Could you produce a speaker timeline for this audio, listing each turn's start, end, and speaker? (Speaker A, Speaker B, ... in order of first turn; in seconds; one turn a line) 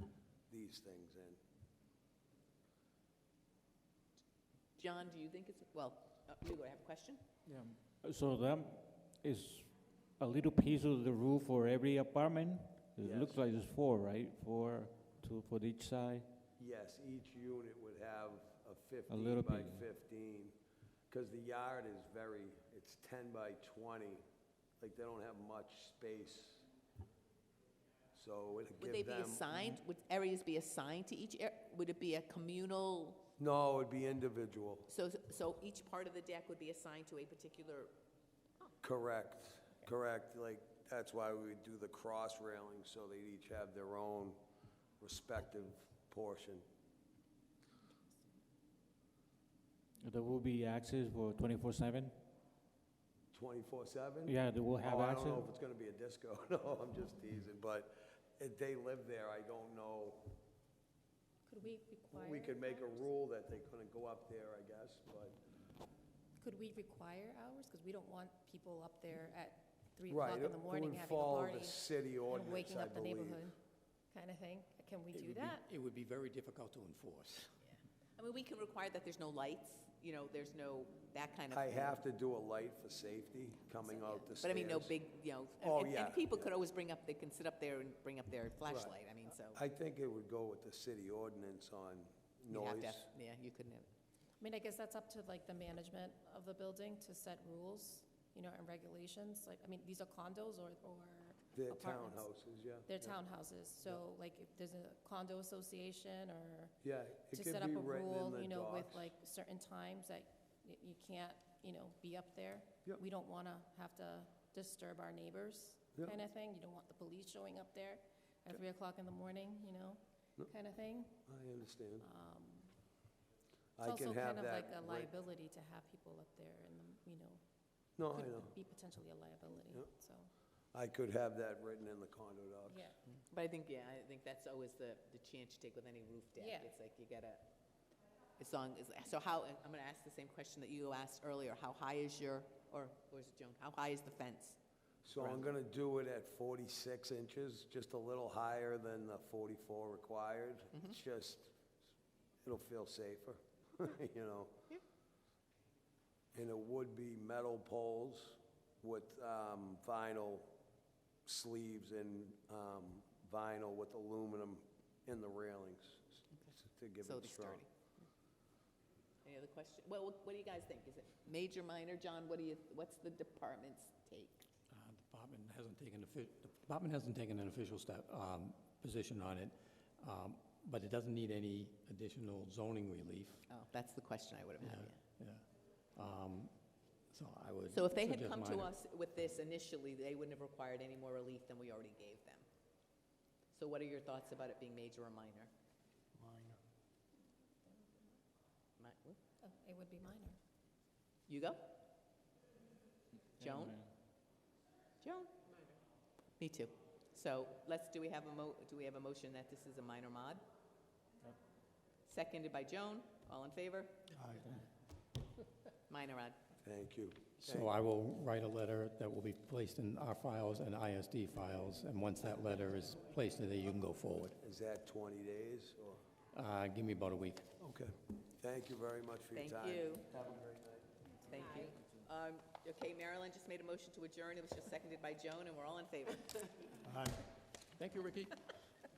Speaker A: 0.5-1.4
Speaker B: 4.8-7.2
Speaker C: 7.5-16.3
Speaker A: 13.0-13.4
Speaker A: 16.6-20.5
Speaker C: 19.1-19.8
Speaker A: 21.1-24.2
Speaker A: 24.8-26.7
Speaker A: 28.1-29.5
Speaker B: 28.8-33.3
Speaker A: 33.4-34.9
Speaker B: 34.9-37.9
Speaker A: 38.8-44.4
Speaker A: 45.0-46.6
Speaker C: 50.0-52.2
Speaker A: 53.3-60.4
Speaker C: 54.2-55.5
Speaker D: 61.4-63.0
Speaker A: 62.1-65.4
Speaker D: 66.4-73.5
Speaker A: 70.1-73.5
Speaker D: 74.1-75.6
Speaker E: 75.1-77.5
Speaker B: 77.6-82.0
Speaker A: 81.5-84.9
Speaker B: 83.8-89.6
Speaker A: 85.6-86.5
Speaker A: 88.7-88.9
Speaker A: 89.5-93.1
Speaker B: 92.5-93.9
Speaker D: 94.4-102.3
Speaker A: 101.5-103.2
Speaker D: 102.9-106.8
Speaker A: 106.8-109.1
Speaker D: 107.3-121.2
Speaker A: 121.2-122.1
Speaker D: 122.0-122.7
Speaker A: 123.8-125.1
Speaker D: 123.8-127.4
Speaker A: 128.0-128.6
Speaker D: 128.1-130.3
Speaker A: 130.7-132.9
Speaker D: 132.7-132.9
Speaker B: 133.3-137.5
Speaker D: 136.4-136.7
Speaker B: 138.4-144.6
Speaker A: 145.0-151.5
Speaker A: 152.4-154.6
Speaker A: 156.3-160.5
Speaker A: 161.2-167.6
Speaker B: 166.3-167.7
Speaker B: 169.2-174.4
Speaker E: 174.7-183.4
Speaker B: 183.5-185.0
Speaker E: 184.6-186.5
Speaker E: 187.1-188.7
Speaker B: 187.7-192.4
Speaker B: 193.5-195.5
Speaker B: 198.8-199.2
Speaker D: 199.4-200.4
Speaker B: 201.3-201.8
Speaker B: 203.4-203.9
Speaker C: 203.4-203.8
Speaker B: 205.0-205.3
Speaker B: 206.4-210.4
Speaker B: 212.1-214.0
Speaker B: 215.9-216.4
Speaker A: 216.6-217.7
Speaker E: 217.4-224.4
Speaker A: 224.4-226.0
Speaker E: 226.3-227.5
Speaker A: 227.6-230.8
Speaker B: 229.3-230.1
Speaker B: 231.2-236.8
Speaker E: 236.8-237.2
Speaker E: 237.7-238.4